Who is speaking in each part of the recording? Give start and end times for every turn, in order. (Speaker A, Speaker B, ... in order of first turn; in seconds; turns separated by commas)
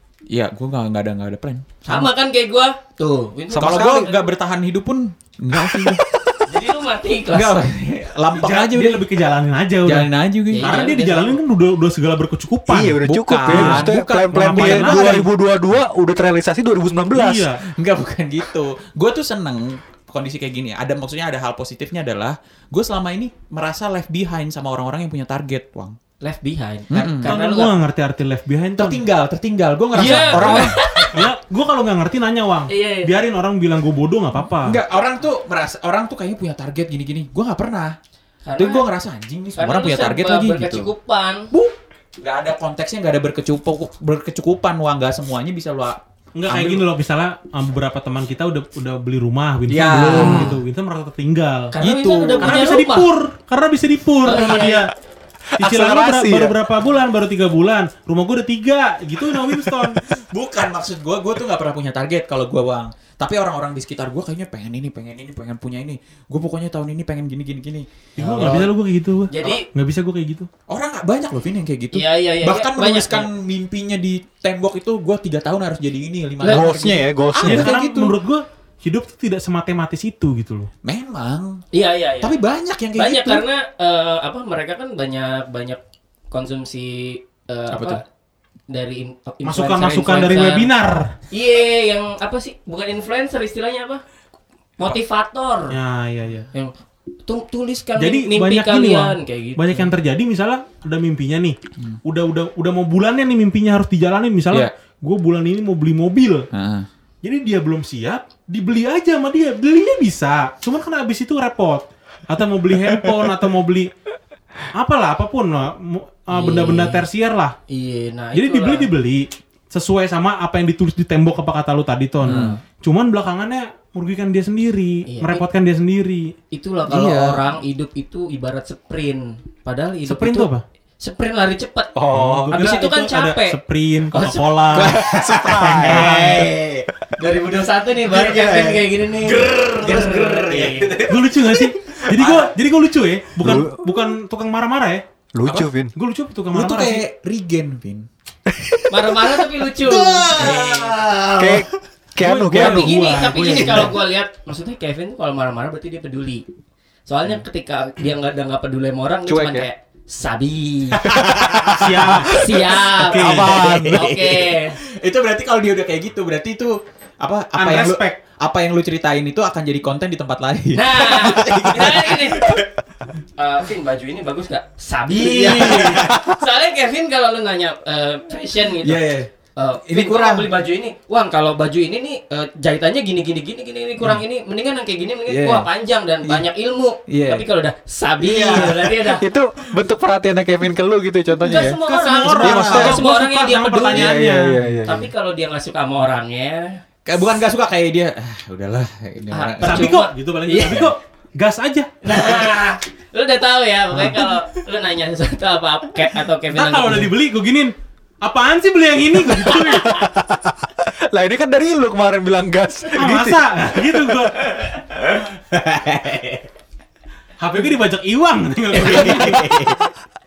Speaker A: 0.3-2.1, Speaker B: 1.9-4.2, Speaker C: 3.5-4.1, Speaker A: 3.5-6.2, Speaker C: 5.6-6.0, Speaker B: 6.5-7.7, Speaker A: 7.3-9.1, Speaker D: 8.3-15.2, Speaker A: 9.8-10.9, Speaker B: 10.5-11.4, Speaker C: 12.7-17.5, Speaker A: 13.0-15.3, Speaker D: 17.1-17.6, Speaker A: 17.6-26.0, Speaker B: 26.2-27.7, Speaker A: 26.9-27.3, Speaker D: 27.2-29.0, Speaker A: 28.8-30.8, Speaker B: 29.9-31.2, Speaker D: 29.9-34.8, Speaker B: 32.7-33.1, Speaker A: 34.6-38.0, Speaker B: 38.4-38.9, Speaker A: 38.5-40.9, Speaker B: 39.5-41.5, Speaker A: 41.5-46.8, Speaker D: 46.3-51.7, Speaker A: 49.7-50.6, Speaker C: 50.1-50.5, Speaker B: 51.7-53.1, Speaker A: 51.8-52.6, Speaker D: 52.4-54.9, Speaker B: 54.2-54.9, Speaker C: 55.5-56.5, Speaker D: 55.6-60.0, Speaker A: 59.8-68.7, Speaker D: 68.2-70.5, Speaker B: 69.3-69.7, Speaker A: 70.7-78.2, Speaker B: 71.9-73.3, Speaker B: 76.4-76.8, Speaker C: 76.5-77.7, Speaker D: 77.4-80.7, Speaker A: 80.8-81.6, Speaker B: 81.7-82.3, Speaker A: 82.2-83.4, Speaker B: 83.0-85.8, Speaker B: 86.3-88.0, Speaker A: 87.7-88.0, Speaker B: 88.7-90.7, Speaker D: 89.4-91.1, Speaker B: 91.3-94.0, Speaker B: 94.8-95.8, Speaker D: 95.7-96.5, Speaker B: 97.2-99.9, Speaker D: 98.0-106.5, Speaker A: 106.5-106.9, Speaker D: 107.2-113.9, Speaker D: 114.7-117.5, Speaker B: 116.3-117.0, Speaker B: 117.7-118.9, Speaker D: 118.3-126.3, Speaker A: 122.2-122.6, Speaker B: 122.2-122.6, Speaker B: 125.1-125.4, Speaker B: 126.5-130.5, Speaker A: 126.9-127.4, Speaker D: 130.1-130.6, Speaker B: 131.0-131.9, Speaker C: 131.9-132.8, Speaker D: 132.1-135.0, Speaker B: 132.5-133.6, Speaker B: 134.1-134.4, Speaker A: 134.7-136.9, Speaker C: 134.9-136.1, Speaker D: 135.7-136.5, Speaker B: 137.2-140.9, Speaker A: 138.1-142.5, Speaker D: 141.1-145.0, Speaker C: 143.4-143.8, Speaker C: 145.3-145.9, Speaker A: 145.4-145.7, Speaker D: 145.9-147.0, Speaker A: 146.5-148.1, Speaker B: 148.9-151.0, Speaker A: 149.6-151.7, Speaker C: 151.4-152.9, Speaker D: 152.2-153.9, Speaker B: 152.5-156.4, Speaker A: 153.3-153.9, Speaker B: 157.1-161.1, Speaker C: 159.3-159.7, Speaker A: 161.0-172.7, Speaker C: 161.3-162.0, Speaker D: 161.7-163.7, Speaker B: 162.3-164.8, Speaker C: 163.2-164.0, Speaker D: 167.6-168.2, Speaker B: 170.7-172.6, Speaker B: 173.4-179.0, Speaker A: 175.1-176.4, Speaker A: 178.8-179.3, Speaker B: 179.6-189.2, Speaker A: 179.8-180.5, Speaker A: 185.3-185.7, Speaker A: 187.1-187.4, Speaker A: 188.2-189.1, Speaker C: 188.4-191.7, Speaker A: 191.3-191.8, Speaker B: 191.4-194.2, Speaker D: 191.8-194.6, Speaker A: 192.3-193.0, Speaker C: 192.4-193.0, Speaker C: 193.9-195.1, Speaker B: 194.8-196.8, Speaker A: 197.1-200.0, Speaker B: 199.3-200.9, Speaker D: 199.6-201.9, Speaker B: 202.0-207.1, Speaker D: 203.9-204.2, Speaker D: 206.5-209.9, Speaker C: 209.5-213.4, Speaker D: 212.9-214.8, Speaker A: 215.5-216.5, Speaker D: 217.4-219.7, Speaker A: 218.8-219.9